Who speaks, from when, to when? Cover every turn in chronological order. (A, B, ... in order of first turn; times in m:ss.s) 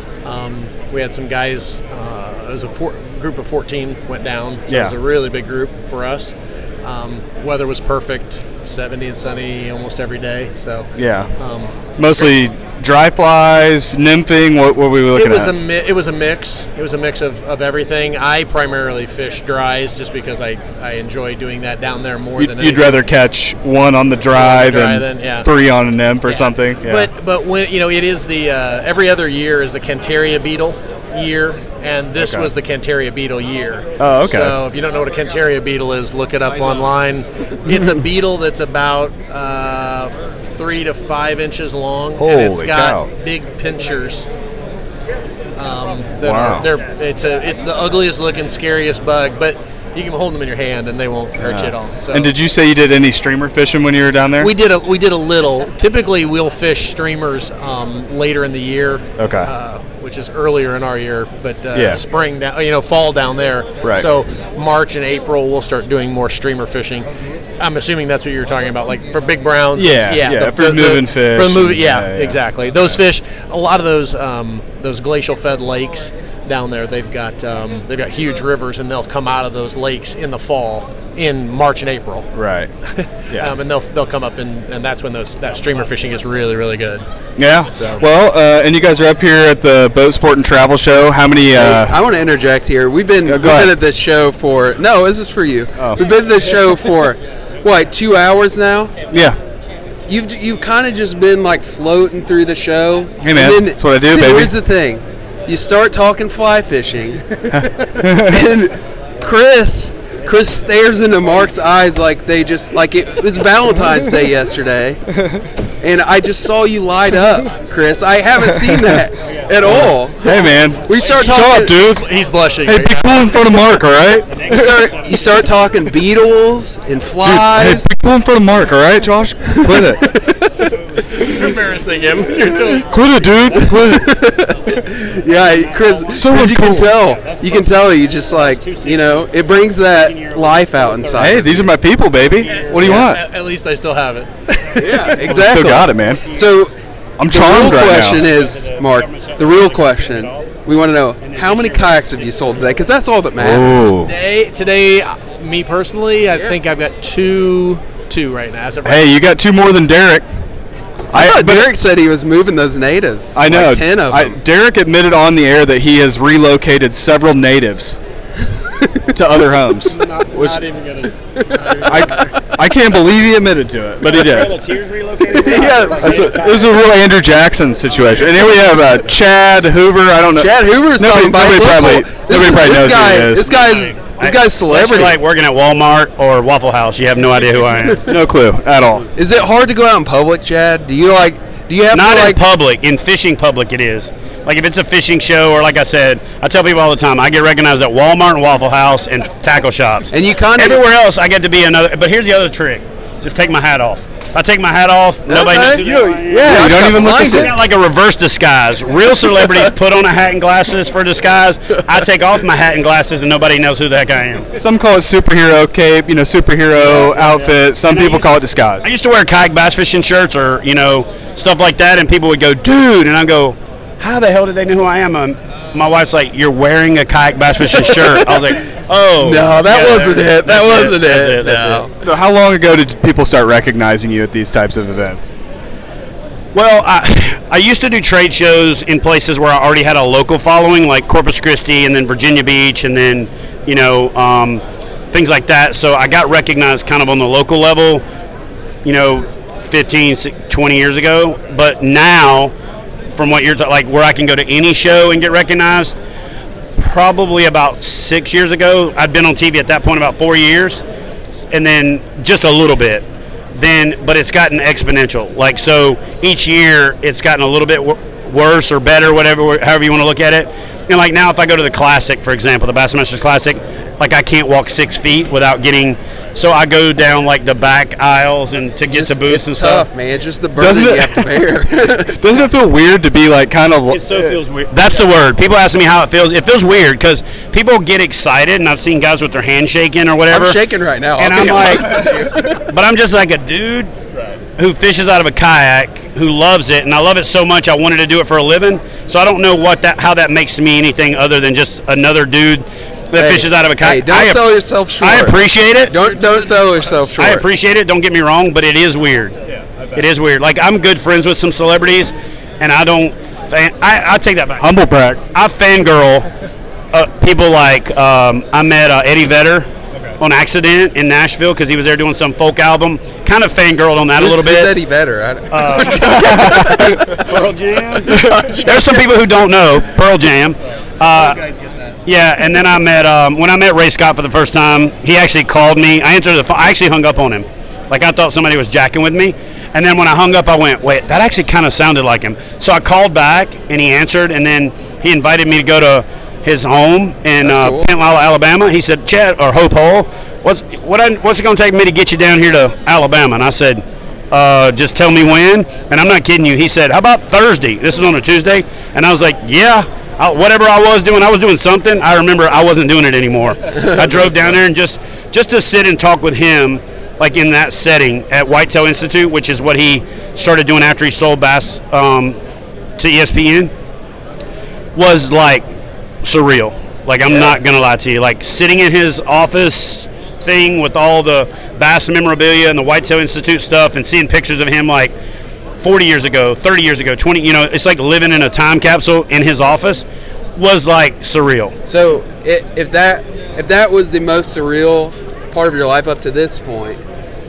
0:00.2-0:12.2 A
0:04.7-0:05.0 B
0:11.0-0:11.3 B
0:12.0-0:15.6 B
0:15.1-0:23.0 A
0:22.4-0:27.1 B
0:24.3-0:25.5 A
0:26.3-0:44.3 A
0:32.2-0:32.5 B
0:34.0-0:34.6 B
0:42.2-0:43.1 B
0:45.6-0:52.3 A
0:46.2-0:46.7 B
0:51.4-0:54.5 B
0:54.4-1:22.3 A
0:59.2-0:59.5 B
1:01.7-1:02.0 B
1:03.8-1:04.1 B
1:09.8-1:13.0 B
1:22.3-1:22.7 B
1:22.8-1:27.0 A
1:27.4-1:32.0 B
1:31.6-1:38.9 C
1:33.2-1:33.8 B
1:35.8-1:36.0 B
1:39.1-1:39.4 B
1:40.1-1:55.0 C
1:43.2-1:44.6 B
1:47.5-1:48.4 B
1:55.2-1:55.4 B
1:55.8-2:01.8 C
1:58.4-1:59.0 B
1:59.2-1:59.7 D
1:59.6-2:02.1 B
2:01.0-2:03.1 A
2:02.6-2:04.8 B
2:04.3-2:05.5 D
2:04.5-2:07.9 C
2:07.2-2:10.1 B
2:09.4-2:11.3 C
2:11.1-2:13.1 A
2:12.9-2:14.2 B
2:13.6-2:21.7 C
2:15.3-2:21.6 D
2:16.1-2:17.0 B
2:21.2-2:23.2 B
2:22.3-2:23.0 D
2:22.5-2:25.0 A
2:24.8-2:26.7 C
2:25.2-2:26.2 B
2:26.1-2:26.6 D
2:27.2-2:28.2 B
2:27.3-2:33.9 C
2:27.6-2:30.6 D
2:31.2-2:32.8 D
2:33.4-2:34.1 B
2:34.0-2:39.2 A
2:38.8-2:40.3 B
2:41.1-2:41.8 B
2:41.1-2:44.4 C
2:43.4-2:48.0 B
2:49.1-2:50.6 B
2:49.9-2:52.6 A
2:51.8-2:54.6 B
2:54.0-2:56.8 D
2:55.3-2:56.4 C
2:55.4-2:56.3 A
2:56.0-3:03.5 B
3:00.4-3:05.2 C
3:03.4-3:08.1 D
3:08.0-3:09.1 B
3:09.2-3:12.4 C
3:11.9-3:34.5 D
3:20.1-3:20.8 C
3:25.3-3:27.6 C
3:25.8-3:27.6 B
3:34.6-3:38.9 B
3:36.9-3:51.9 D
3:48.0-3:48.4 C
3:49.2-3:51.9 C
3:52.0-3:55.3 B
3:56.5-4:08.0 D
4:08.8-4:12.5 D
4:13.1-4:16.0 D
4:16.8-4:20.8 D
4:21.5-4:23.0 D
4:23.6-4:39.9 D
4:38.9-4:42.2 C
4:40.6-4:41.3 B
4:42.0-4:44.4 B
4:43.9-4:50.6 D
4:50.3-4:52.6 C
4:51.2-4:53.9 D
4:51.7-4:52.3 B
4:54.6-5:06.0 D
5:03.2-5:07.4 C
5:07.2-5:09.4 D
5:09.4-5:10.1 B
5:10.0-5:14.7 D
5:14.6-5:15.2 B
5:15.2-5:16.3 D
5:16.9-5:24.8 D
5:19.9-5:20.2 B
5:24.2-5:27.3 C
5:25.5-5:31.4 D
5:26.2-5:27.2 B
5:28.1-5:28.6 B
5:28.1-5:29.0 C
5:31.1-5:32.0 A
5:32.0-6:12.4 D
5:47.4-5:47.9 C
6:13.0-6:13.7 D
6:15.0-6:15.7 D
6:16.2-6:25.1 D
6:25.8-6:31.7 D
6:31.8-6:37.0 C